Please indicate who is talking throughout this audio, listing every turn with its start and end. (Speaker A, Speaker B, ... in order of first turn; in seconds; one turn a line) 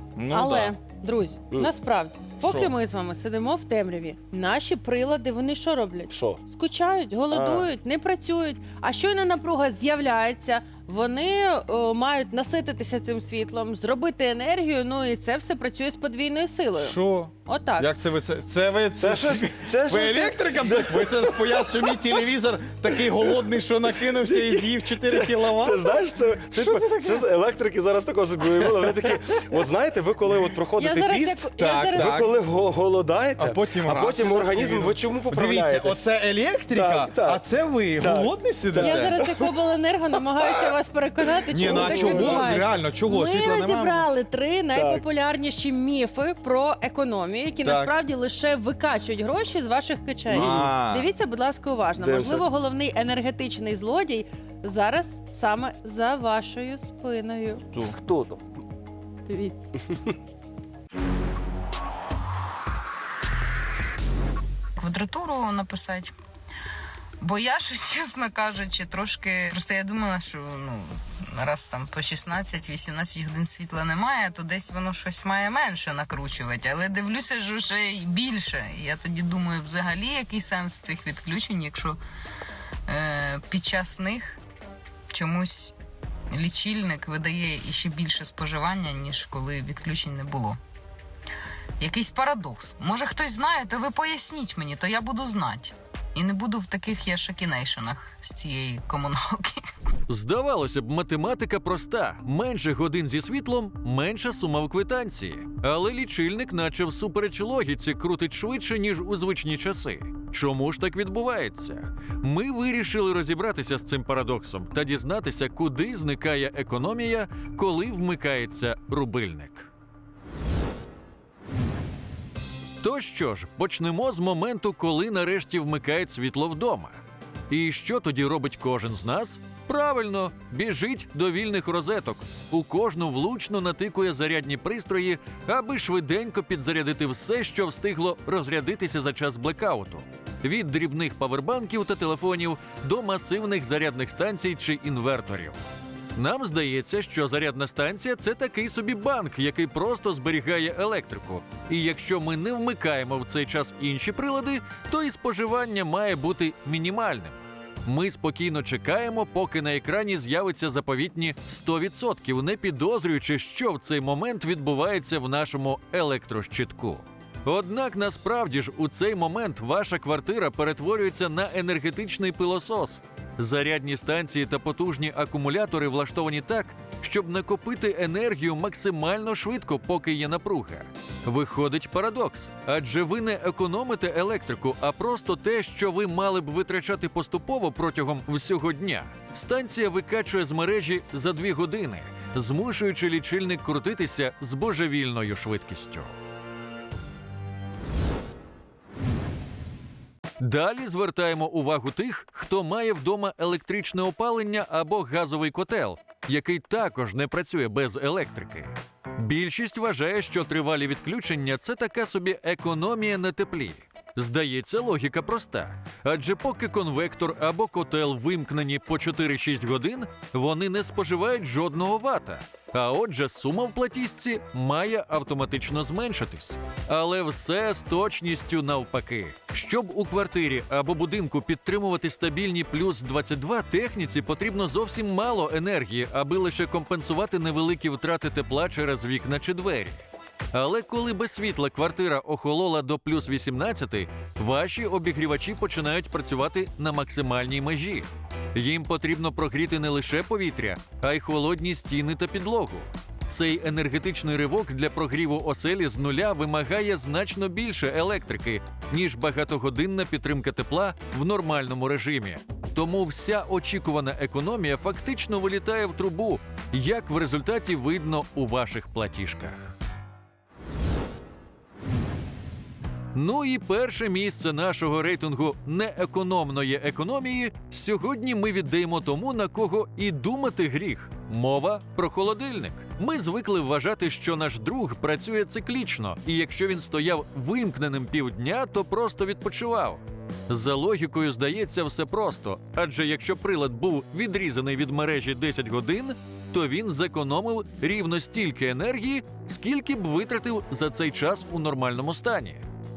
Speaker A: 0.1-0.7
Speaker B: 0.3-17.9
Speaker A: 2.4-2.7
Speaker C: 6.1-6.4
Speaker C: 7.3-7.7
Speaker A: 16.8-27.3
Speaker C: 19.0-22.0
Speaker C: 24.2-36.0
Speaker A: 28.6-28.9
Speaker B: 30.8-32.2
Speaker A: 31.6-32.4
Speaker A: 33.4-39.2
Speaker C: 36.7-37.4
Speaker C: 38.0-39.5
Speaker B: 38.8-57.6
Speaker A: 41.5-44.1
Speaker C: 41.6-42.6
Speaker C: 44.7-45.0
Speaker A: 47.6-47.9
Speaker C: 50.3-50.7
Speaker A: 50.3-51.1
Speaker C: 52.0-52.4
Speaker C: 58.0-58.4
Speaker B: 59.2-59.7
Speaker D: 64.8-66.1
Speaker D: 67.2-82.0
Speaker D: 82.9-84.4
Speaker D: 85.1-85.7
Speaker D: 86.3-90.6
Speaker D: 91.8-99.6
Speaker E: 100.1-119.7
Speaker E: 122.8-127.0
Speaker E: 127.5-145.6
Speaker E: 146.1-196.1
Speaker E: 200.4-269.7
Speaker E: 273.1-302.6